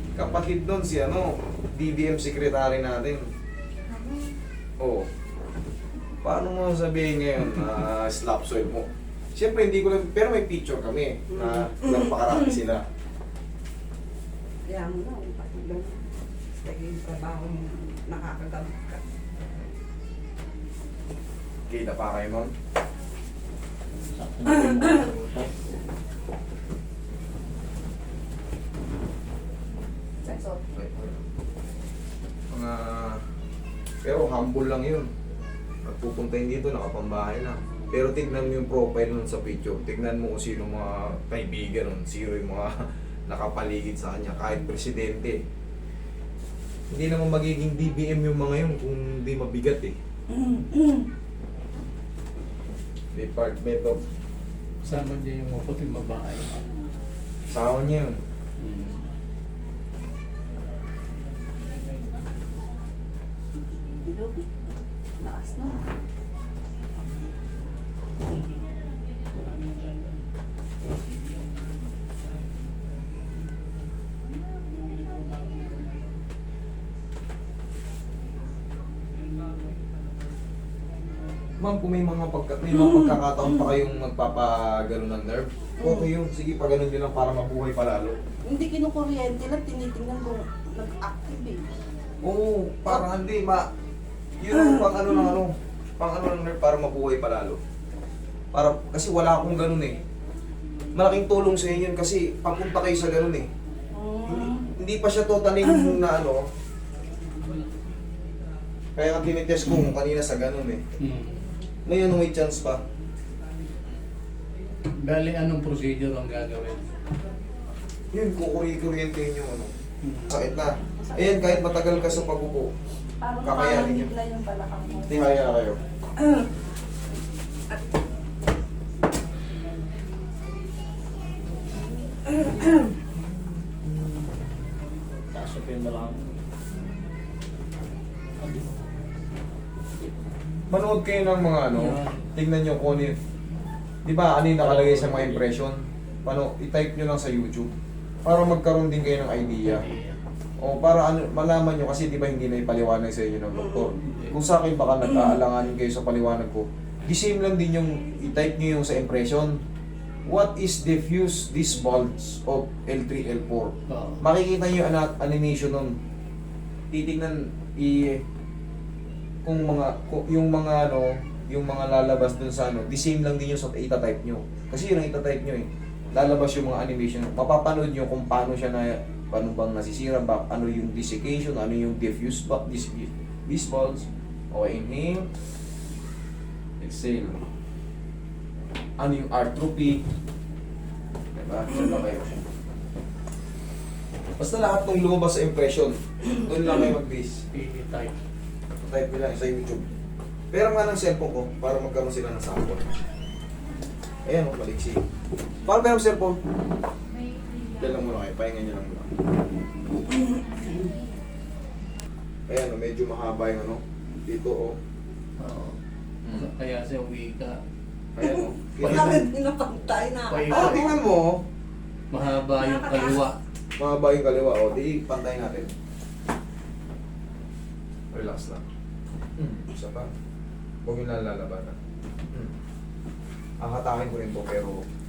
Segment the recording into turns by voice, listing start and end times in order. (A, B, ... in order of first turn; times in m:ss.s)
0:00.2-0:03.2 A
0:03.9-0:04.2 B
0:04.8-0:05.1 A
0:06.2-0:12.8 A
0:11.3-0:12.6 B
0:14.7-0:19.0 B
0:21.7-0:22.5 A
0:24.2-0:25.5 C
0:24.5-0:25.0 B
0:30.2-0:30.6 B
0:30.8-0:31.2 A
0:32.5-0:33.2 A
0:34.0-0:35.1 A
0:35.8-0:42.8 A
0:43.3-0:45.4 A
0:46.9-0:49.9 A
0:50.3-0:51.1 B
0:53.1-0:54.0 A
0:54.8-0:56.5 C
0:57.5-0:58.2 A
0:58.6-0:59.0 C
1:04.1-1:04.5 B
1:05.2-1:05.8 B
1:21.6-1:28.2 A
1:22.7-1:23.7 B
1:25.8-1:26.1 B
1:28.5-1:31.6 B
1:32.2-1:33.7 A
1:34.4-1:37.6 A
1:34.5-1:35.3 B
1:38.5-1:40.0 A
1:41.0-1:43.5 A
1:43.9-1:44.7 B
1:44.3-1:46.4 A
1:45.6-1:46.0 B
1:49.0-1:50.8 A
1:51.0-1:51.4 C
1:51.9-1:52.8 A
1:55.0-1:56.9 C
1:58.1-1:59.7 A
2:00.0-2:00.4 C
2:00.3-2:02.7 A
2:00.9-2:02.2 B
2:03.2-2:05.2 B
2:03.4-2:04.1 A
2:05.1-2:05.8 A
2:06.2-2:06.5 B
2:12.3-2:13.0 B
2:15.3-2:16.2 C
2:18.4-2:18.7 C
2:20.7-2:23.2 A
2:21.7-2:22.3 C
2:24.0-2:27.7 A
2:24.6-2:25.4 C
2:28.2-2:29.8 A
2:29.6-2:30.2 C
2:30.6-2:39.6 A
2:33.5-2:33.9 B
2:34.0-2:34.4 C
2:40.3-2:45.9 A
2:43.9-2:44.2 C
2:46.9-2:48.2 A
2:49.4-3:05.3 A
3:06.8-3:07.4 A
3:09.0-3:10.0 A
3:11.4-3:12.3 A
3:14.4-3:17.4 A
3:17.5-3:18.1 C
3:18.8-3:19.9 A
3:20.5-3:22.9 A
3:24.3-3:25.0 A
3:25.7-3:26.4 A
3:27.8-3:29.1 A
3:30.0-3:30.9 B
3:32.5-3:34.8 A
3:35.4-3:35.8 C
3:36.2-3:36.5 A
3:36.3-3:37.6 C
3:38.2-3:39.3 A
3:38.2-3:40.9 B
3:38.8-3:39.1 C
3:40.3-3:40.9 C
3:40.5-3:41.4 A
3:42.1-3:43.4 C
3:42.5-3:43.3 B
3:43.8-3:45.7 A
3:48.1-3:48.6 A
3:49.4-3:50.1 A
3:50.8-3:51.8 A
3:53.6-3:54.8 A